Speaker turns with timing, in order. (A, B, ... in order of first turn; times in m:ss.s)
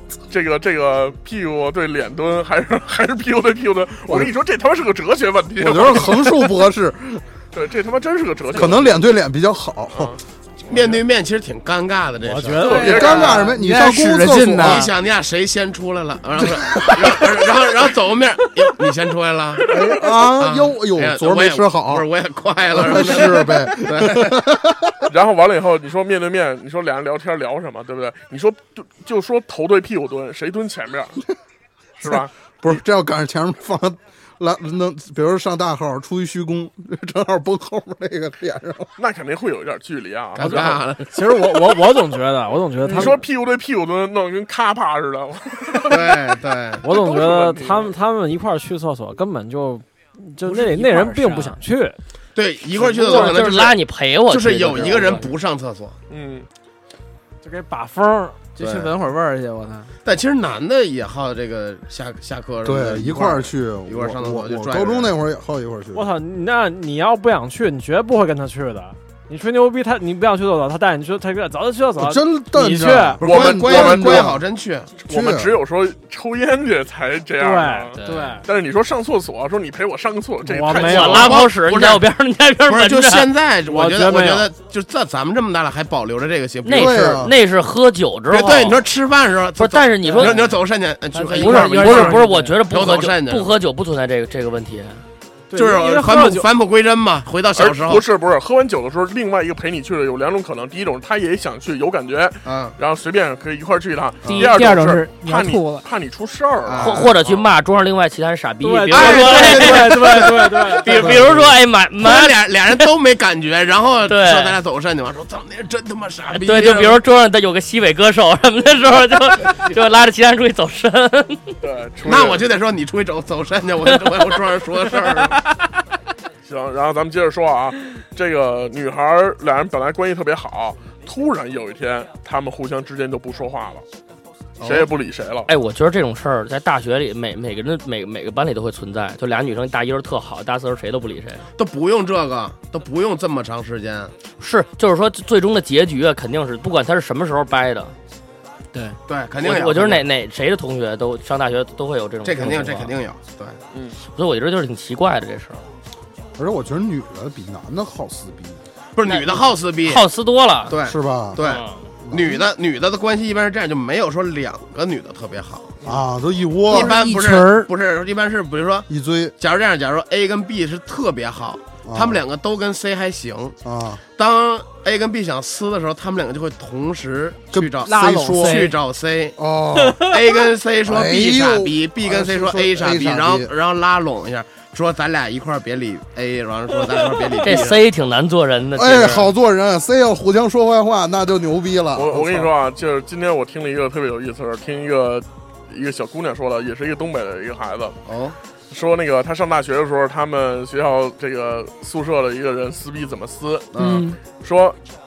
0:00.3-0:06.5 A
0:05.6-0:07.2 B
0:07.5-0:09.0 A
0:08.5-0:10.2 B
0:09.9-0:11.0 A
0:10.7-0:13.1 C
0:12.2-0:13.3 D
0:12.6-0:13.5 A
0:12.8-0:14.9 B
0:13.0-0:14.9 E
0:14.4-0:19.8 C
0:16.4-0:17.2 B
0:19.7-0:22.1 B
0:19.7-0:20.0 A
0:20.4-0:24.4 C
0:22.7-0:25.1 B
0:25.1-0:31.2 A
0:32.0-0:32.8 A
0:32.0-0:38.9 B
0:39.0-0:40.8 A
0:40.3-0:41.1 C
0:41.1-0:43.2 D
0:42.9-0:47.9 A
0:45.8-0:46.8 C
0:46.8-0:52.0 D
0:50.7-0:51.6 E
0:52.4-0:56.0 C
0:52.7-0:53.3 A
0:52.9-0:55.3 F
0:56.1-0:56.5 A
0:57.4-0:58.4 D
0:58.6-0:58.9 C
0:58.6-0:59.9 E
1:00.0-1:05.1 C
1:02.6-1:06.1 B
1:05.9-1:13.2 D
1:12.0-1:14.4 B
1:13.2-1:14.3 A
1:13.2-1:15.0 C
1:15.0-1:21.5 A
1:15.1-1:15.5 B
1:17.4-1:18.4 D
1:18.0-1:18.3 E
1:20.4-1:21.4 D
1:20.8-1:23.3 F
1:21.1-1:22.1 C
1:22.6-1:27.2 C
1:23.7-1:24.5 D
1:26.6-1:28.8 F
1:26.7-1:27.3 B
1:28.3-1:33.6 C
1:29.6-1:30.6 F
1:31.2-1:32.3 E
1:31.3-1:35.0 F
1:35.5-1:36.5 D
1:35.5-1:38.0 C
1:37.5-1:47.5 A
1:42.4-1:42.8 C
1:44.2-1:45.8 E
1:46.6-1:47.1 C
1:46.8-1:52.4 F
1:48.6-1:51.2 D
1:48.9-1:57.0 C
1:54.0-1:54.6 F
1:56.3-2:01.5 F
2:01.6-2:02.5 A
2:02.0-2:05.4 C
2:06.4-2:13.8 A
2:14.6-2:14.9 C
2:14.6-2:15.5 A
2:15.5-2:21.4 F
2:21.6-2:24.1 C
2:24.4-2:27.9 F
2:28.7-2:29.0 E
2:29.1-2:30.0 C
2:29.4-2:33.0 F
2:32.2-2:33.6 C
2:34.0-2:35.7 F
2:36.4-2:38.6 B
2:38.9-2:40.0 C
2:39.0-2:40.8 F
2:40.7-2:45.8 C
2:40.8-2:41.4 B
2:42.0-2:42.4 B
2:45.8-2:47.0 B
2:46.7-2:53.6 C
2:46.7-2:47.7 E
2:48.9-2:49.3 B
2:51.8-2:52.2 B
2:53.6-2:54.0 B
2:54.1-2:59.4 C
2:57.5-2:58.7 B
2:57.8-2:58.8 E
2:59.4-3:00.1 B
3:00.0-3:07.8 C
3:00.8-3:03.5 B
3:07.4-3:09.3 F
3:08.7-3:12.5 B
3:11.9-3:18.0 A
3:18.0-3:18.4 C
3:18.7-3:23.7 A
3:23.7-3:24.1 C
3:23.8-3:24.2 E
3:24.3-3:24.8 A